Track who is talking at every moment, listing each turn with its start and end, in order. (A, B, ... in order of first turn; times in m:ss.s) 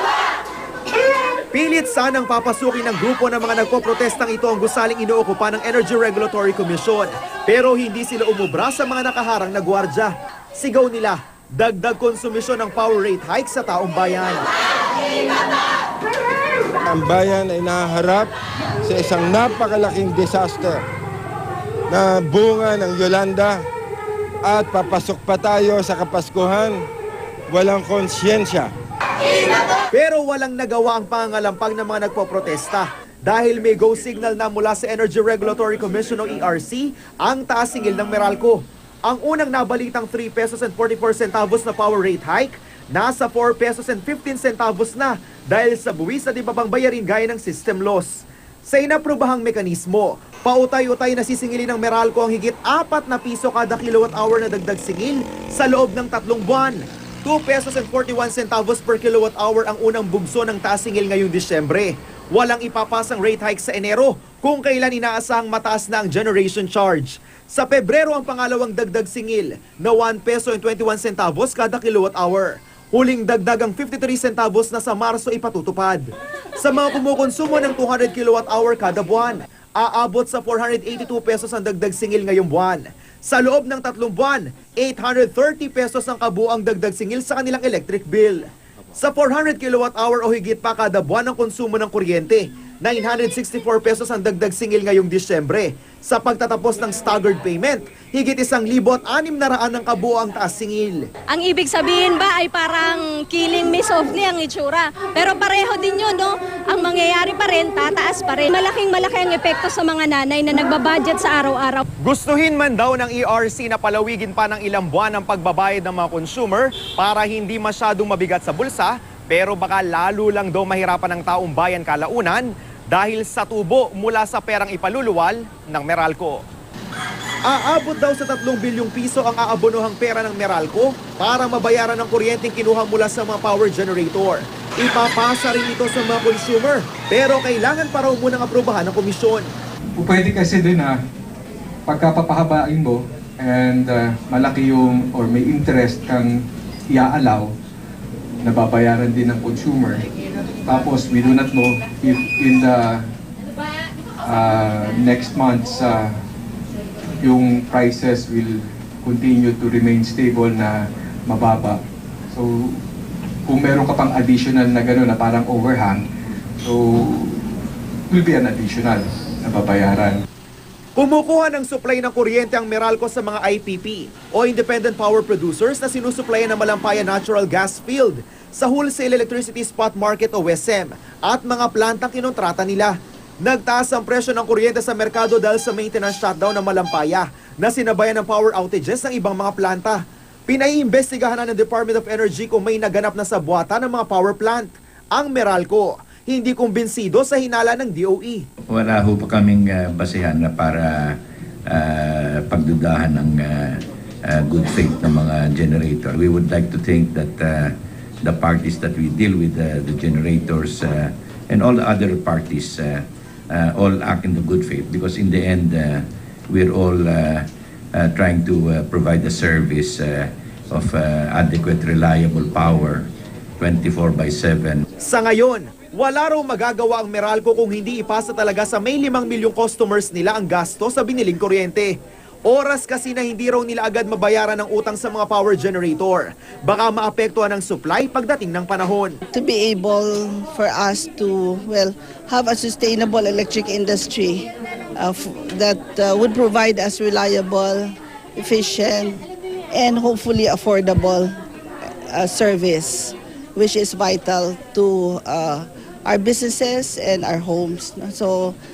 0:01.5-0:14.4 A
0:16.9-0:18.3 B
0:18.8-0:20.8 B
0:21.9-0:23.6 B
0:24.4-0:26.9 B
0:27.5-0:28.7 B
0:29.9-1:16.0 A
1:16.6-1:28.4 A
1:29.0-1:41.0 A
1:41.3-1:51.8 C
1:52.0-2:06.4 A
2:07.5-2:19.5 A
2:20.0-2:21.0 D
2:21.8-2:27.5 D
2:28.4-2:30.0 D
2:30.6-2:33.0 D
2:34.2-2:36.2 D
2:37.2-2:42.8 D
2:43.4-2:46.0 D
2:46.6-2:47.5 D
2:48.1-2:50.2 D
2:51.0-3:18.4 A
3:18.7-3:43.1 E
3:43.6-3:44.8 E
3:45.0-3:59.2 A
3:59.3-4:11.4 F
4:12.1-4:18.6 F